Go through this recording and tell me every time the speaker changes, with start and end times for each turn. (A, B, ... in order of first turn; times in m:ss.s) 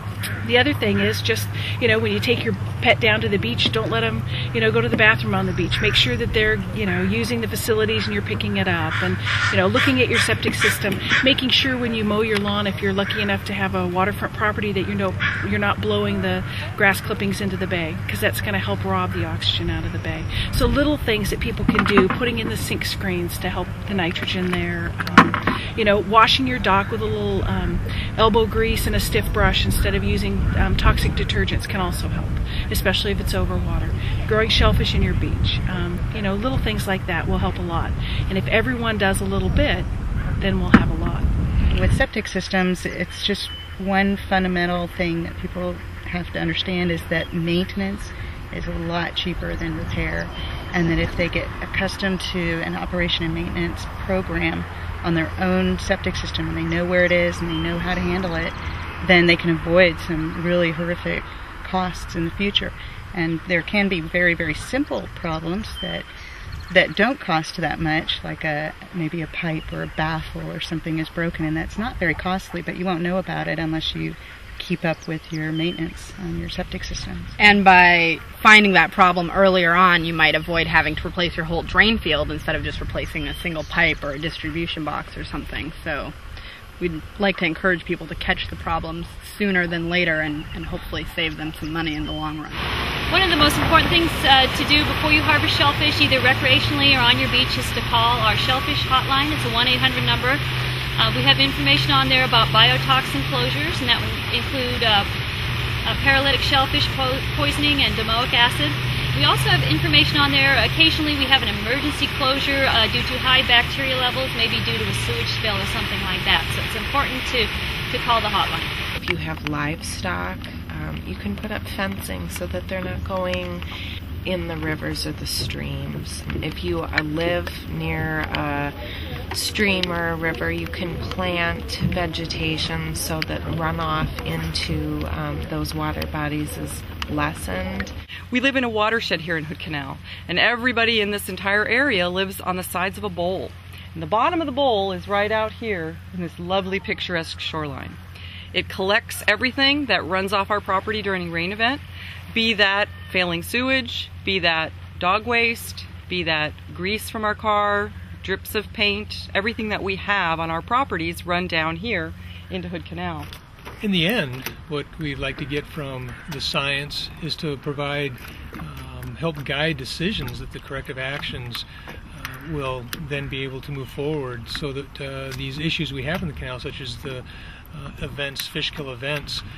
0:00.4-0:39.9 A
0:40.4-0:41.2 A
0:41.7-1:06.1 B
1:06.7-1:17.3 B
1:17.4-1:26.1 C
1:26.8-1:32.7 C
1:33.1-1:40.4 D
1:41.0-1:45.1 D
1:45.9-1:58.7 D
1:58.9-2:03.7 E
2:04.2-2:08.7 E
2:09.3-2:17.9 E
2:18.3-2:28.0 F
2:28.5-2:43.3 F
2:43.8-2:59.4 G